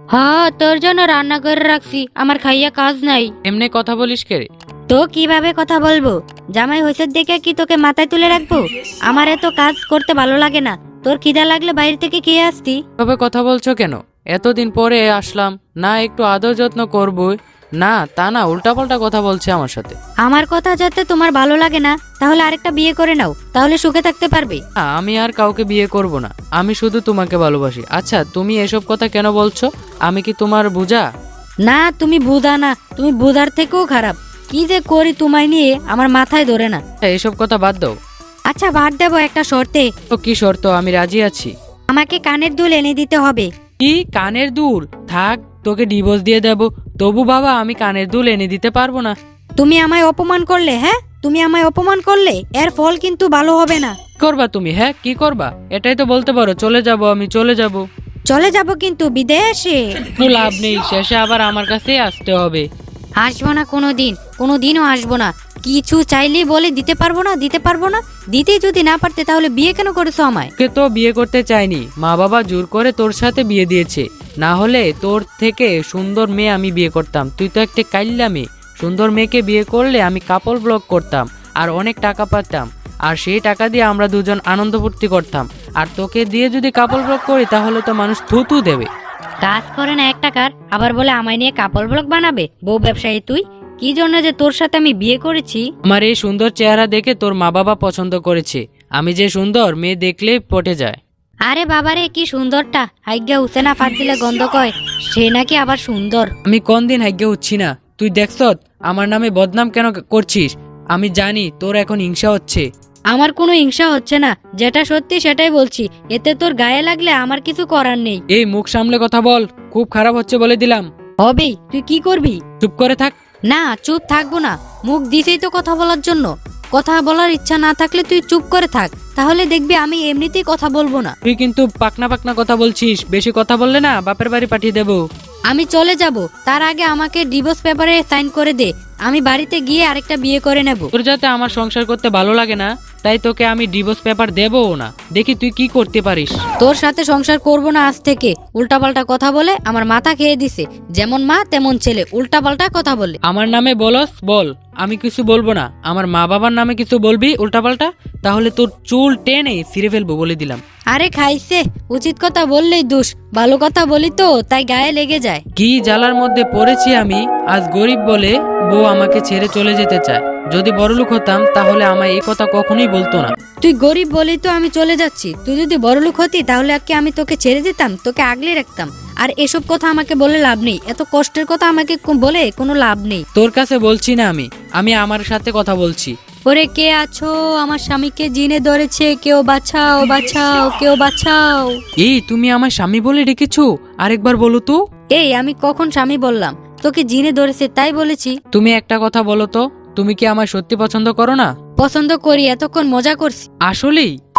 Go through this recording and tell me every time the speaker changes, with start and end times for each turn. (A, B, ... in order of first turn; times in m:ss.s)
0:00.1-0:03.3 A
0:03.4-0:04.5 B
0:04.9-0:12.8 A
0:13.0-0:20.0 B
0:20.2-0:24.6 A
0:24.8-0:31.1 B
0:31.6-0:36.8 A
0:37.0-0:38.0 B
0:38.5-0:39.9 A
0:40.1-0:41.5 B
0:41.9-0:43.5 A
0:43.8-0:49.2 B
0:49.6-0:54.0 A
0:54.2-0:57.9 B
0:58.3-1:00.0 A
1:00.2-1:02.7 B
1:03.2-1:10.5 A
1:10.6-1:28.9 B
1:29.4-1:35.6 A
1:35.8-1:41.0 B
1:41.5-1:46.3 A
1:46.4-1:52.7 B
1:53.1-1:58.2 A
1:58.3-2:00.9 B
2:01.2-2:02.4 A
2:02.6-2:03.2 B
2:03.5-2:11.1 A
2:11.2-2:15.0 B
2:15.5-2:20.9 A
2:20.9-2:26.4 B
2:26.6-2:33.2 A
2:33.2-2:40.6 B
2:40.9-2:45.4 A
2:45.6-2:53.3 B
2:53.6-3:03.2 A
3:03.3-3:06.1 B
3:06.5-3:11.8 A
3:12.0-3:14.8 B
3:15.1-3:18.4 A
3:18.5-3:21.5 B
3:21.8-3:23.5 A
3:23.7-3:24.2 B